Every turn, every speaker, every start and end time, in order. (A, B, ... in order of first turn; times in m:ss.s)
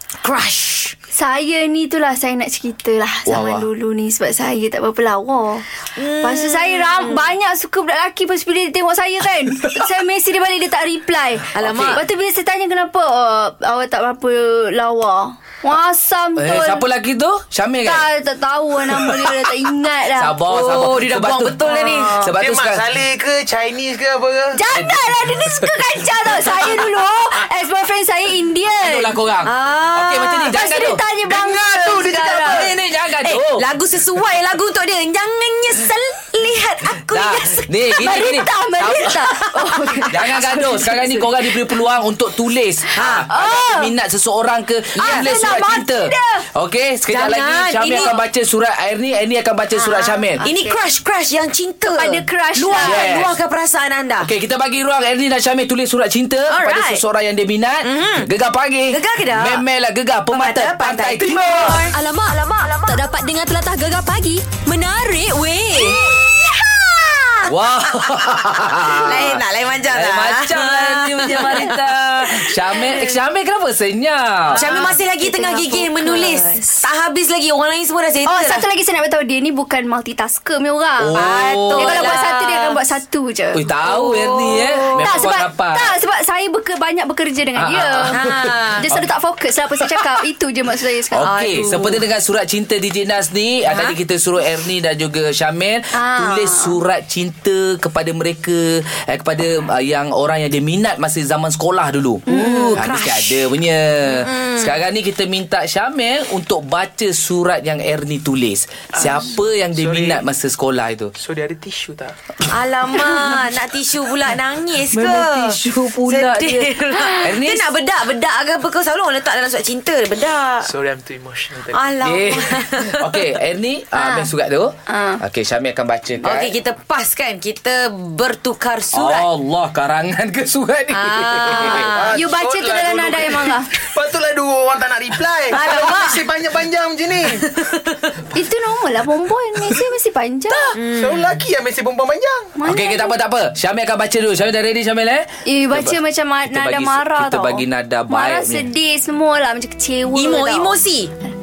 0:00.2-0:01.0 A
0:01.1-0:16.8 B
0:03.3-0:03.7 C
0:06.0-0:07.3 A
0:11.5-0:12.0 A
0:11.6-0:12.0 C
0:16.4-0:18.1 C
0:17.8-0:20.4 B
0:18.9-0:19.5 C
0:20.2-0:22.8 C
0:20.5-0:22.3 A
0:21.7-0:22.3 B
0:21.8-0:24.6 D
0:24.5-0:29.2 B
0:24.7-0:25.8 C
0:26.3-0:26.7 C
0:28.8-0:31.0 C
0:29.4-0:30.6 A
0:30.5-0:32.6 B
0:31.2-0:32.7 D
0:32.2-0:32.7 A
0:32.5-0:33.7 C
0:33.2-0:38.3 A
0:37.1-0:39.3 C
0:38.0-0:41.6 B
0:39.1-0:40.3 A
0:40.1-0:50.4 C
0:43.0-0:43.3 A
0:43.3-0:43.9 B
0:45.0-0:45.3 A
0:45.0-0:46.5 B
0:47.1-0:48.2 A
0:49.7-0:50.8 B
0:50.4-0:54.3 A
0:51.8-0:53.1 B
0:52.7-0:53.4 C
0:54.2-1:01.8 C
0:56.5-0:57.0 A
0:57.8-0:58.3 A
0:58.9-0:59.6 A
1:00.3-1:03.0 A
1:01.8-1:06.0 E
1:05.7-1:11.8 A
1:07.5-1:14.8 C
1:12.7-1:12.9 A
1:14.5-1:18.6 A
1:14.5-1:16.8 B
1:18.2-1:23.6 B
1:21.0-1:22.2 C
1:21.1-1:22.8 A
1:23.5-1:26.0 C
1:23.8-1:25.2 A
1:24.7-1:28.2 B
1:27.6-1:29.1 C
1:28.1-1:28.9 A
1:28.8-1:31.4 B
1:29.8-1:30.1 C
1:31.1-1:51.1 C
1:31.2-1:32.0 A
1:33.7-1:34.0 A
1:35.9-1:36.8 B
1:42.3-1:42.8 B
1:42.6-1:43.5 A
1:44.1-1:44.8 A
1:48.9-1:50.2 D
1:51.2-1:52.2 D
1:52.5-2:00.7 A
1:54.9-1:57.7 C
2:00.6-2:01.9 D
2:01.7-2:03.3 A
2:02.0-2:06.5 C
2:04.0-2:04.3 B
2:04.9-2:05.2 B
2:06.2-2:09.3 A
2:08.9-2:12.0 C
2:10.9-2:12.2 A
2:11.5-2:17.6 D
2:12.1-2:13.7 B
2:15.5-2:16.3 A
2:17.5-2:18.1 A
2:18.3-2:20.8 B
2:20.8-2:21.3 A
2:20.8-2:22.5 D
2:22.6-2:23.2 B
2:22.6-2:25.3 C
2:25.4-2:30.8 B
2:26.5-2:28.7 C
2:30.1-2:31.1 A